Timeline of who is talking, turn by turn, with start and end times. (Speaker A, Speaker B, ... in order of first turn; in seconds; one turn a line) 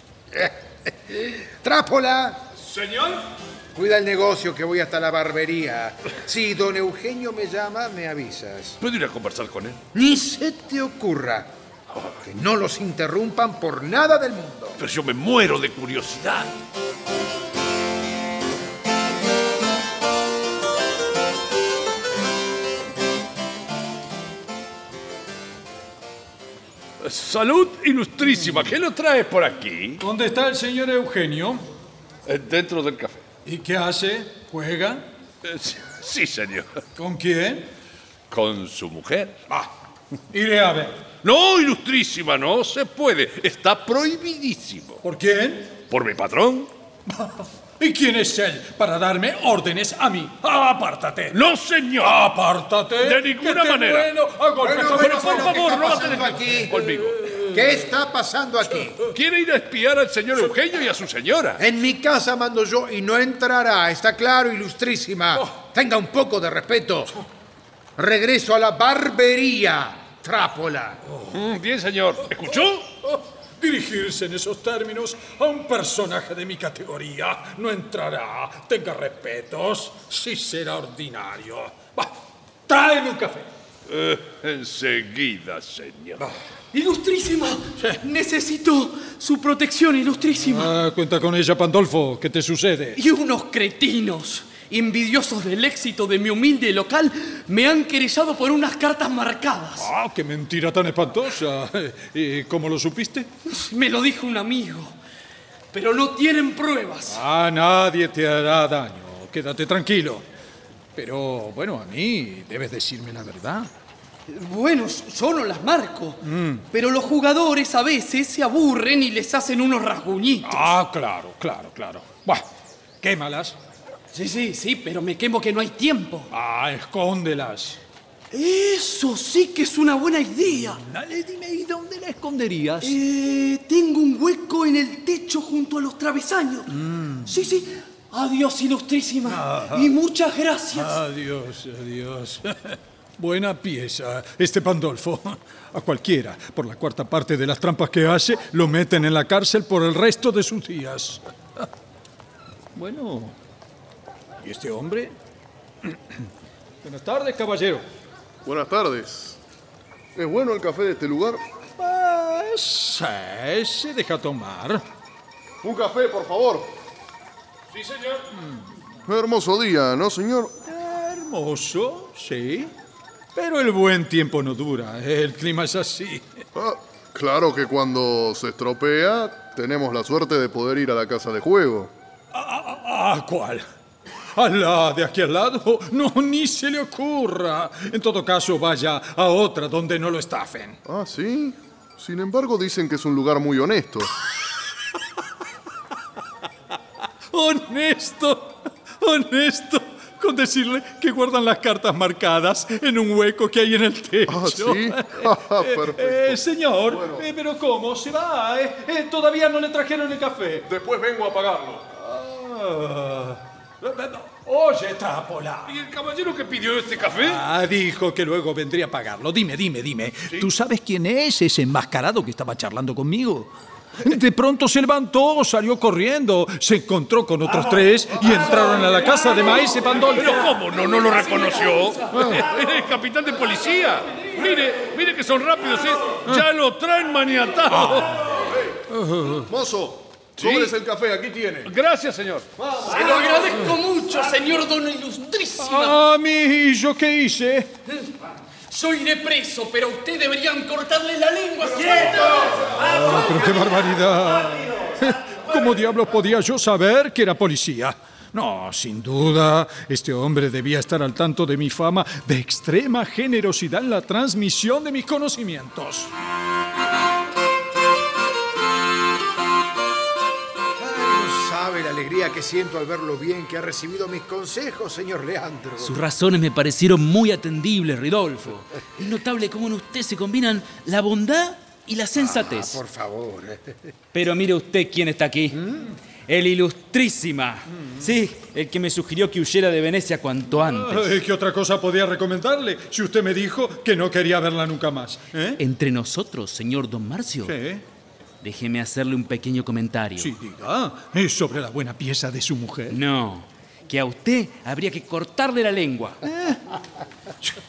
Speaker A: 1.1-2.5
Speaker B: 2.6-3.2
Speaker A: 3.8-8.8
Speaker B: 8.8-9.8
Speaker A: 9.9-11.5
Speaker B: 11.9-12.2
Speaker A: 12.3-14.8
Speaker B: 14.8-16.5
Speaker B: 27.0-30.0
Speaker C: 30.0-31.6
Speaker B: 32.3-33.2
Speaker C: 33.5-35.0
Speaker B: 35.4-36.8
Speaker C: 37.0-37.7
Speaker B: 38.3-39.5
Speaker C: 40.3-40.9
Speaker B: 41.2-45.0
Speaker C: 45.0-45.7
Speaker B: 45.9-46.7
Speaker C: 47.1-51.5
Speaker B: 51.3-52.4
Speaker C: 52.0-55.5
Speaker B: 52.9-54.1
Speaker A: 54.6-56.9
Speaker B: 54.8-57.2
Speaker A: 57.5-59.0
Speaker B: 59.1-61.6
Speaker A: 61.6-67.1
Speaker A: 68.0-71.0
Speaker C: 71.0-71.4
Speaker B: 71.3-72.9
Speaker C: 73.0-82.1
Speaker C: 82.7-83.5
Speaker B: 83.9-86.3
Speaker D: 86.7-90.8
Speaker C: 90.4-93.0
Speaker D: 93.0-99.9
Speaker C: 99.8-103.3
Speaker D: 103.5-105.0
Speaker D: 105.7-107.2
Speaker C: 107.1-110.2
Speaker C: 111.0-113.7
Speaker D: 114.3-120.8
Speaker C: 116.2-116.7
Speaker C: 120.4-122.5
Speaker C: 123.0-123.6
Speaker D: 124.1-126.3
Speaker C: 126.3-127.8
Speaker D: 128.3-130.8
Speaker C: 130.5-133.0
Speaker D: 132.8-141.0
Speaker C: 136.7-137.4
Speaker C: 139.3-139.9
Speaker C: 140.7-151.7
Speaker C: 152.8-153.3
Speaker C: 154.4-155.2
Speaker C: 156.8-157.8
Speaker E: 158.4-159.4
Speaker E: 160.2-161.4
Speaker C: 161.8-164.8
Speaker E: 165.6-166.7
Speaker B: 167.7-168.3
Speaker C: 168.3-168.7
Speaker E: 169.1-170.5
Speaker C: 170.7-172.7
Speaker C: 173.3-176.3
Speaker E: 176.6-181.9
Speaker C: 182.3-183.7
Speaker C: 184.4-190.8
Speaker E: 190.9-194.1
Speaker C: 197.3-210.7
Speaker E: 204.3-207.3
Speaker B: 210.7-211.8
Speaker C: 211.9-215.7
Speaker B: 215.7-217.4
Speaker C: 217.2-230.5
Speaker B: 230.1-238.3
Speaker E: 239.5-241.7
Speaker B: 240.4-240.8
Speaker B: 241.6-242.5
Speaker D: 242.8-246.0
Speaker C: 242.9-243.5
Speaker C: 245.6-247.7
Speaker D: 248.7-253.7
Speaker C: 252.8-266.1
Speaker A: 270.8-275.9
Speaker F: 275.8-282.8
Speaker A: 282.2-283.8
Speaker F: 284.1-285.6
Speaker F: 286.3-291.2
Speaker C: 287.8-288.1
Speaker C: 290.5-295.6
Speaker F: 295.6-297.6
Speaker C: 297.4-297.8
Speaker F: 298.4-300.3
Speaker C: 300.2-303.0
Speaker F: 302.9-306.2
Speaker C: 306.2-306.6